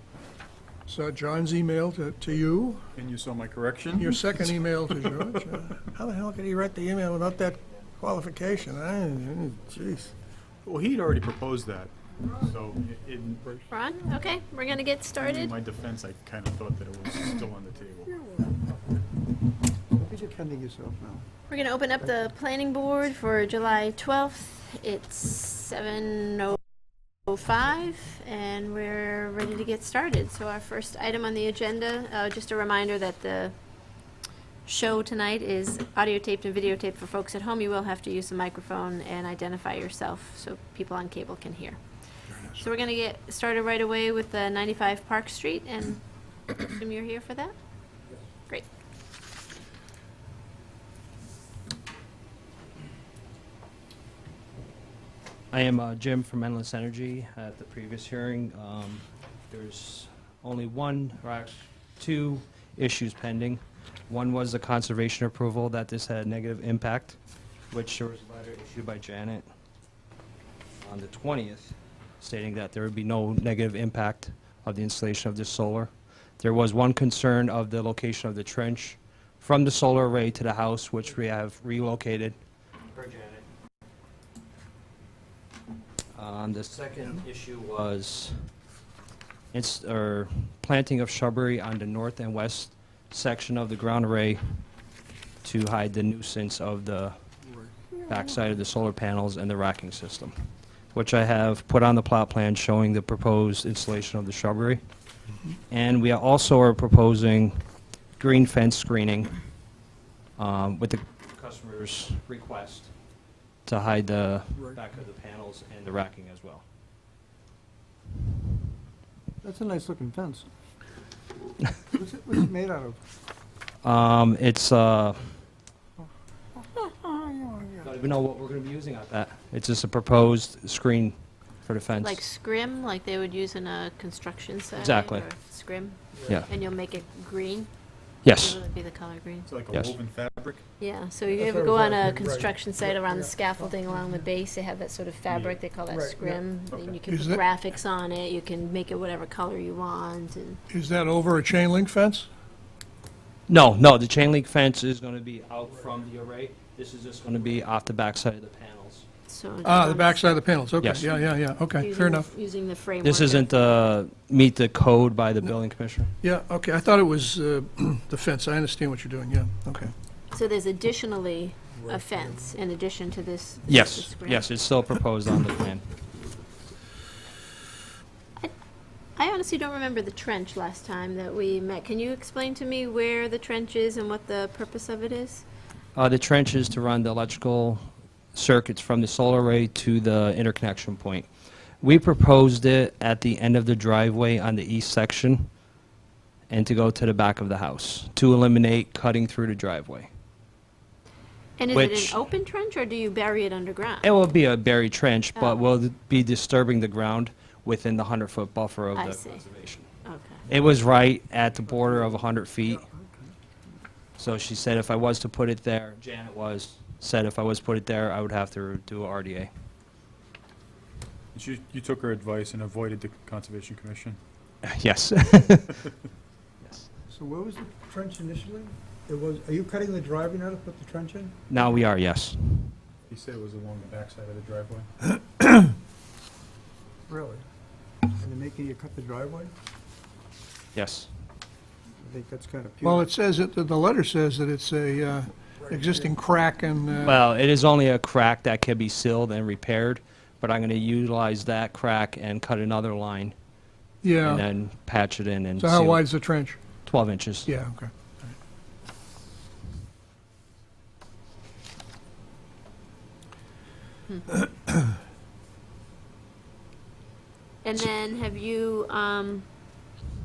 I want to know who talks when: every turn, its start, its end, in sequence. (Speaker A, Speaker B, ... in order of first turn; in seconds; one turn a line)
Speaker A: 0.9-2.9
Speaker B: 2.9-5.2
Speaker A: 4.0-10.1
Speaker B: 10.6-13.6
Speaker C: 13.7-15.5
Speaker B: 15.2-18.1
Speaker D: 18.2-18.6
Speaker D: 19.9-21.3
Speaker C: 21.5-26.6
Speaker C: 27.2-33.5
Speaker C: 34.6-41.8
Speaker C: 42.5-47.5
Speaker E: 55.5-67.2
Speaker E: 67.7-69.5
Speaker E: 70.8-75.9
Speaker E: 76.4-82.3
Speaker E: 82.9-83.4
Speaker E: 86.1-88.3
Speaker E: 89.5-94.4
Speaker E: 95.4-97.2
Speaker E: 98.1-100.3
Speaker E: 100.9-104.8
Speaker E: 105.7-107.6
Speaker E: 108.2-109.3
Speaker E: 110.4-112.9
Speaker E: 113.7-116.6
Speaker D: 119.4-120.5
Speaker D: 121.8-123.0
Speaker E: 123.8-125.2
Speaker D: 126.8-127.9
Speaker E: 127.8-132.2
Speaker C: 132.0-137.7
Speaker E: 134.8-135.2
Speaker E: 138.2-138.6
Speaker C: 138.4-139.5
Speaker B: 139.5-140.6
Speaker E: 139.7-139.9
Speaker C: 140.8-150.6
Speaker D: 141.3-144.2
Speaker B: 145.3-145.6
Speaker D: 145.9-146.4
Speaker B: 146.7-146.9
Speaker A: 147.1-147.4
Speaker A: 150.7-152.3
Speaker E: 153.5-159.1
Speaker C: 159.3-160.4
Speaker A: 159.6-162.3
Speaker E: 160.8-161.1
Speaker C: 161.8-163.6
Speaker E: 163.0-166.1
Speaker A: 166.2-169.9
Speaker C: 170.3-174.4
Speaker D: 171.8-172.4
Speaker E: 173.7-175.8
Speaker C: 179.2-185.4
Speaker E: 185.9-187.8
Speaker E: 188.3-191.3
Speaker E: 191.8-195.5
Speaker E: 196.5-200.1
Speaker C: 201.6-204.1
Speaker E: 201.7-202.2
Speaker E: 204.0-209.8
Speaker C: 208.9-209.4
Speaker C: 210.0-210.4
Speaker E: 210.5-212.8
Speaker D: 211.8-213.3
Speaker E: 214.2-219.5
Speaker B: 221.3-224.2
Speaker E: 224.7-225.8
Speaker E: 226.6-226.9
Speaker D: 227.1-231.3
Speaker E: 231.5-232.7
Speaker B: 233.1-234.9
Speaker D: 237.1-237.4
Speaker D: 238.1-239.5
Speaker E: 240.7-241.1
Speaker D: 242.0-243.1
Speaker A: 242.8-247.2
Speaker D: 245.6-246.2
Speaker E: 247.0-253.3
Speaker A: 254.0-254.4
Speaker E: 254.2-256.0
Speaker A: 255.6-256.6
Speaker E: 256.8-257.5
Speaker A: 257.4-258.3
Speaker C: 267.6-269.4